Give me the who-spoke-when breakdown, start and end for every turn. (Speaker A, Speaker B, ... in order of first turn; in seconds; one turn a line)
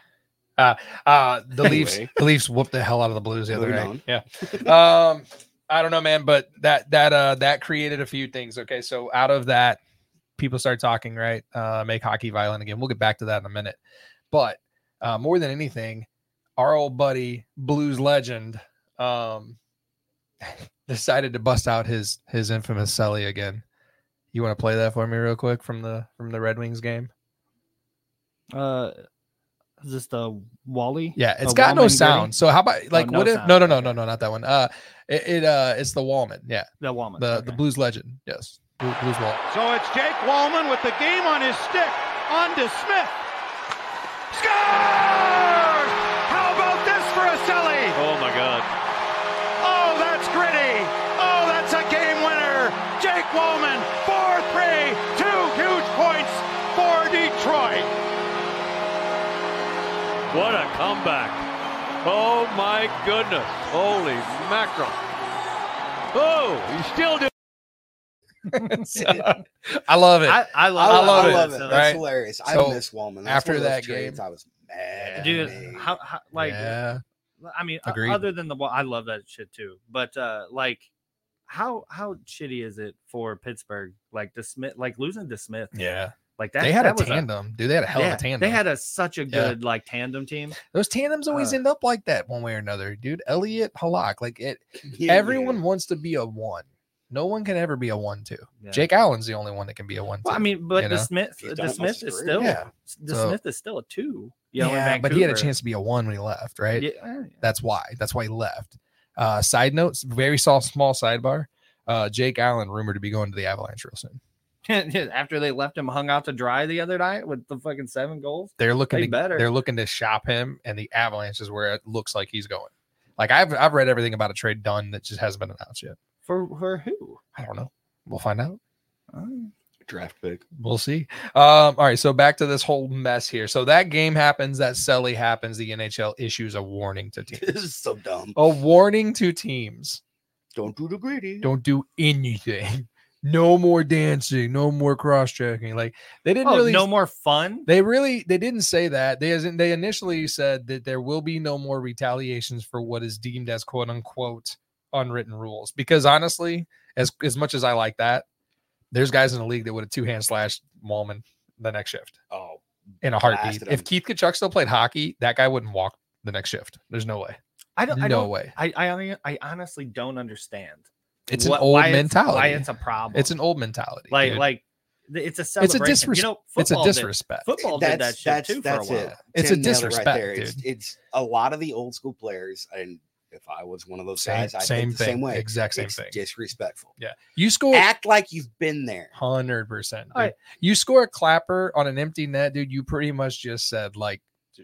Speaker A: 0.6-9.8
Speaker B: 1.6-2.1
Speaker B: 3.5-4.7
Speaker A: 10.4-13.8
Speaker A: 14.3-19.6
Speaker A: 20.4-23.6
Speaker A: 24.3-27.1
Speaker C: 28.5-28.9
Speaker C: 29.8-32.3
Speaker A: 31.2-39.4
Speaker C: 32.9-33.9
Speaker C: 36.8-37.6
Speaker D: 39.5-43.1
Speaker D: 44.3-47.9
Speaker E: 47.9-48.7
Speaker D: 49.6-57.9
Speaker E: 60.3-61.5
Speaker E: 62.0-65.0
Speaker E: 66.1-67.3
Speaker C: 68.5-69.4
Speaker A: 68.5-74.2
Speaker C: 70.3-71.8
Speaker B: 70.8-75.9
Speaker A: 75.0-75.6
Speaker C: 75.2-76.8
Speaker A: 76.3-77.0
Speaker C: 77.4-80.9
Speaker A: 77.9-78.2
Speaker C: 81.5-85.8
Speaker A: 85.7-88.6
Speaker C: 86.4-87.3
Speaker C: 87.9-90.6
Speaker A: 90.6-101.1
Speaker C: 91.3-91.6
Speaker B: 94.8-95.6
Speaker C: 98.6-98.8
Speaker C: 100.2-105.5
Speaker B: 101.4-102.6
Speaker A: 102.4-103.4
Speaker A: 104.6-106.9
Speaker C: 106.8-107.4
Speaker A: 107.4-114.2
Speaker C: 114.7-119.5
Speaker A: 118.6-126.0
Speaker C: 126.3-127.2
Speaker A: 127.4-128.6
Speaker C: 129.1-129.5
Speaker B: 129.9-130.4
Speaker A: 130.6-137.6
Speaker B: 137.4-138.4
Speaker A: 138.4-140.0
Speaker B: 140.6-141.5
Speaker A: 141.4-146.9
Speaker C: 146.4-147.7
Speaker A: 147.7-158.2
Speaker A: 158.9-162.2
Speaker B: 162.3-163.9
Speaker A: 163.0-167.4
Speaker C: 167.8-173.3
Speaker A: 167.9-168.5
Speaker A: 171.3-174.4
Speaker C: 174.1-179.2
Speaker A: 175.6-177.5
Speaker B: 177.6-186.9
Speaker A: 179.3-180.6
Speaker A: 184.2-186.2
Speaker A: 187.0-187.9
Speaker B: 187.7-189.1
Speaker A: 189.2-194.2